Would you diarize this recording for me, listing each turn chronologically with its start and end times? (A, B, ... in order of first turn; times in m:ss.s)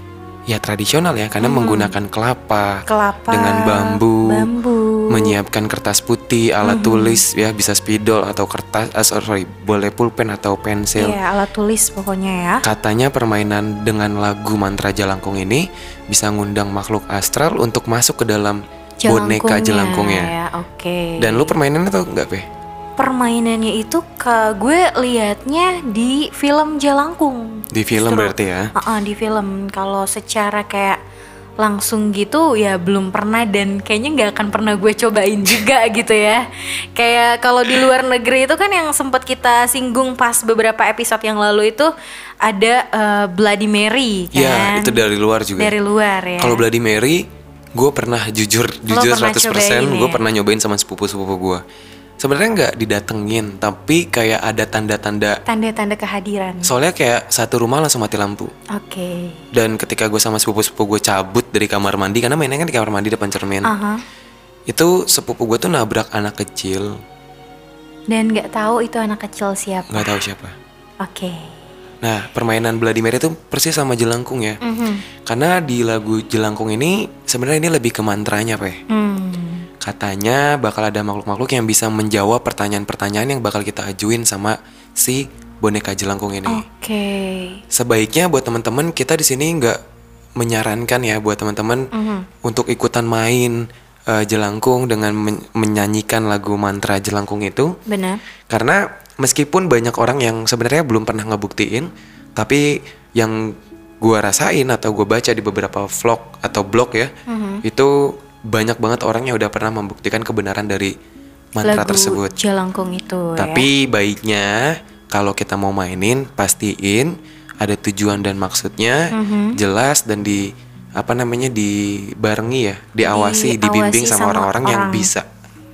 0:00.5-0:04.5 A
0:01.4-0:01.9 B
0:02.9-0:05.4 B
0:05.1-0:11.2 A
0:06.6-0:07.2 B
0:11.0-0:12.6 B
0:12.6-0:20.3 A
0:19.0-0:21.5 B
0:21.2-0:22.5 A
0:23.0-0:31.0 B
0:27.7-0:28.7 A
0:31.6-0:36.4 B
0:37.0-0:41.9 B
0:42.4-0:45.0 B
0:44.3-0:45.7 A
0:45.6-0:46.6 B
0:46.4-0:51.6 A
0:48.9-0:50.2 B
0:52.2-0:55.4 A
0:55.4-0:56.7 B
0:56.6-0:58.5 A
0:58.7-0:59.4 B
0:59.5-1:03.7 A
1:03.6-1:04.0 B
1:04.7-1:07.0 A
1:08.1-1:10.2 B
1:09.9-1:10.6 A
1:11.0-1:11.5 B
1:12.0-1:14.6 A
1:14.6-1:15.0 B
1:15.2-1:18.8 A
1:18.9-1:19.7 B
1:19.8-1:26.6 A
1:26.4-1:27.6 B
1:27.7-1:29.8 A
1:30.4-1:31.9 A
1:31.9-1:32.3 B
1:32.4-1:37.8 A
1:37.9-1:38.2 B
1:38.5-1:47.1 A
1:47.3-1:47.6 B
1:47.6-1:50.9 A
1:51.6-1:52.3 A
1:51.6-1:53.7 B
1:53.4-2:05.3 A
1:59.1-1:59.6 B
2:03.0-2:05.1 B